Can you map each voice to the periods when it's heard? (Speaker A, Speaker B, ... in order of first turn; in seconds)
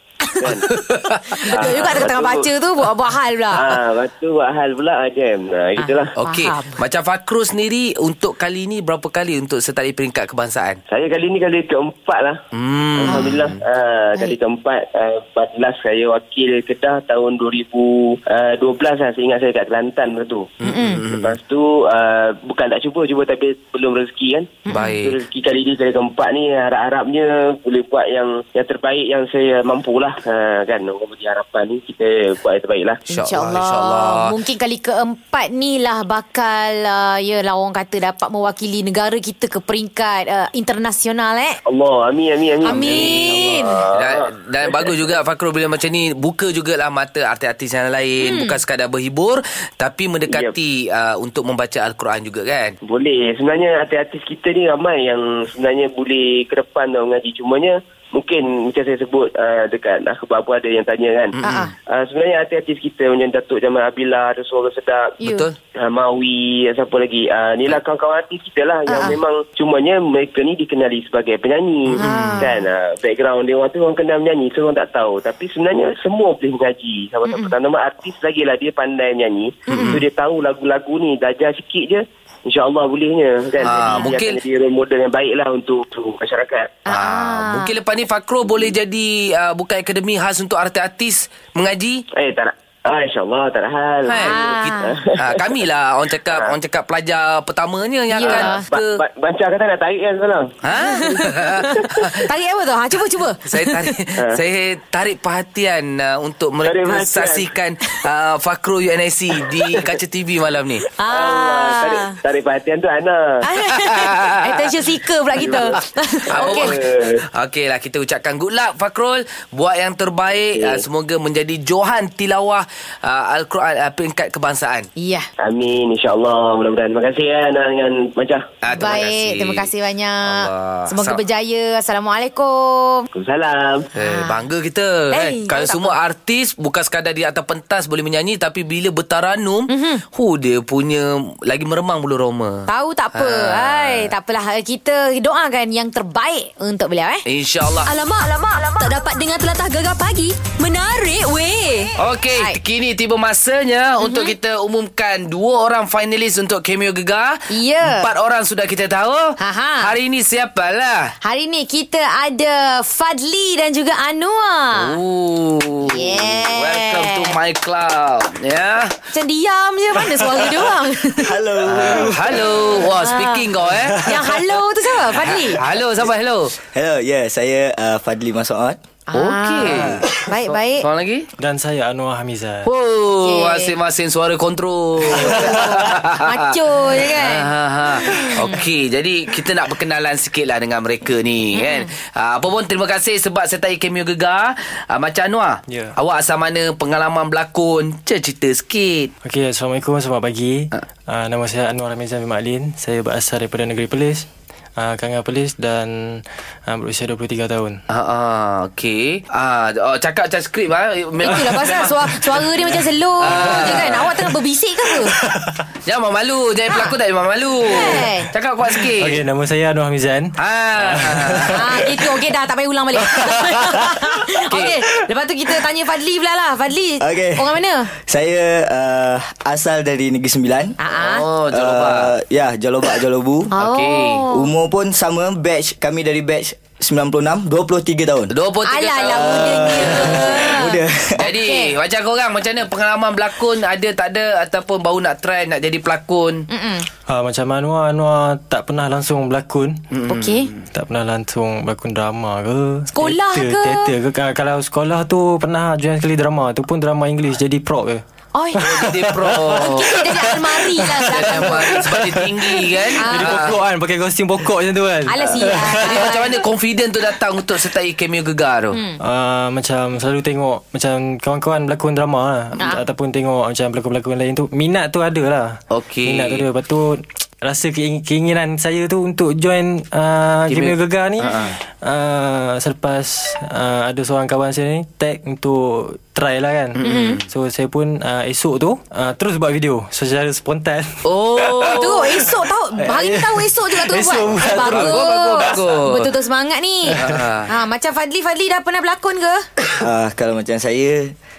Speaker A: 0.2-0.6, 1.3-3.8, 5.8-6.8, 13.1-13.3, 20.6-21.0, 24.6-24.9, 33.1-41.6, 42.6-43.8, 48.2-48.6, 61.4-61.7, 65.2-65.5, 68.9-69.2, 72.0-72.5, 77.2-77.5, 79.7-80.0, 83.6-84.1, 86.8-87.7, 94.1-95.0, 98.1-98.6, 100.7-103.9, 111.0-112.2, 113.4-116.7, 125.0-125.3, 128.7-133.1, 134.0-134.4, 135.1-135.9, 139.7-140.0, 142.7-147.2, 154.0-154.3, 157.5-158.1, 159.4-159.9, 161.2-164.9, 165.8-167.3, 169.1-171.3, 172.9-175.6, 179.1-180.8, 183.2-183.7, 185.1-188.6, 191.6-191.9, 211.2-215.2, 216.7-216.9, 217.6-218.3, 221.5-227.9, 230.8-231.2, 233.5-234.5, 238.6-241.7, 246.5-246.9, 250.1-250.5, 252.9-253.9, 258.3-258.6, 259.5-261.9, 263.0-263.4, 265.1-266.4, 268.7-269.0, 286.8-287.2, 291.7-299.4
Speaker B: 0.4-0.7, 1.4-2.5, 3.5-6.1, 10.9-12.4, 13.0-20.5, 21.1-33.0, 41.7-45.0, 50.3-50.5, 52.8-61.4, 61.9-65.2, 65.8-86.8, 92.1-95.5, 98.2-101.2, 106.6-107.5, 111.1-113.4, 115.3-115.8, 116.3-117.2, 120.5-120.8, 125.4-128.5, 133.1-133.9
Speaker C: 0.7-2.0, 6.2-10.8, 12.5-13.6, 20.6-21.3, 24.7-25.2, 33.1-34.3, 42.6-52.8, 61.4-61.7, 65.2-65.5, 72.0-72.5, 79.7-80.0, 83.6-84.4, 86.9-92.0, 94.1-99.0, 100.6-102.3, 103.4-110.9, 113.7-114.7, 116.3-124.9, 128.6-129.7, 130.2-131.2, 133.9-144.1, 147.2-147.9, 152.0-161.1, 164.7-169.0, 171.7-174.2, 175.1-176.5, 179.1-181.3, 182.7-199.1, 207.9-212.4, 213.2-214.1, 215.8-219.2, 220.4-221.6, 224.5-224.8, 230.9-232.1, 233.6-234.2, 238.3-240.5, 241.2-246.4, 249.9-250.7, 258.6-260.0, 261.0-263.6, 265.8-268.8, 275.7-276.4, 280.5-281.6, 286.8-287.2, 291.0-292.2, 294.6-296.1, 296.9-297.5
Speaker D: 147.8-151.9
Speaker E: 171.2-172.6, 176.7-178.8, 179.6-180.0, 227.0-230.8, 231.5-233.5, 234.3-238.3, 239.1-241.2, 299.8-301.1
Speaker F: 181.4-182.7, 185.2-185.7, 195.7-195.9, 199.2-207.8, 211.3-211.6, 212.8-214.3, 215.1-215.6, 218.8-222.0, 223.2-224.0, 247.1-249.8, 250.7-258.0, 258.5-266.1, 269.0-295.4, 296.9-297.3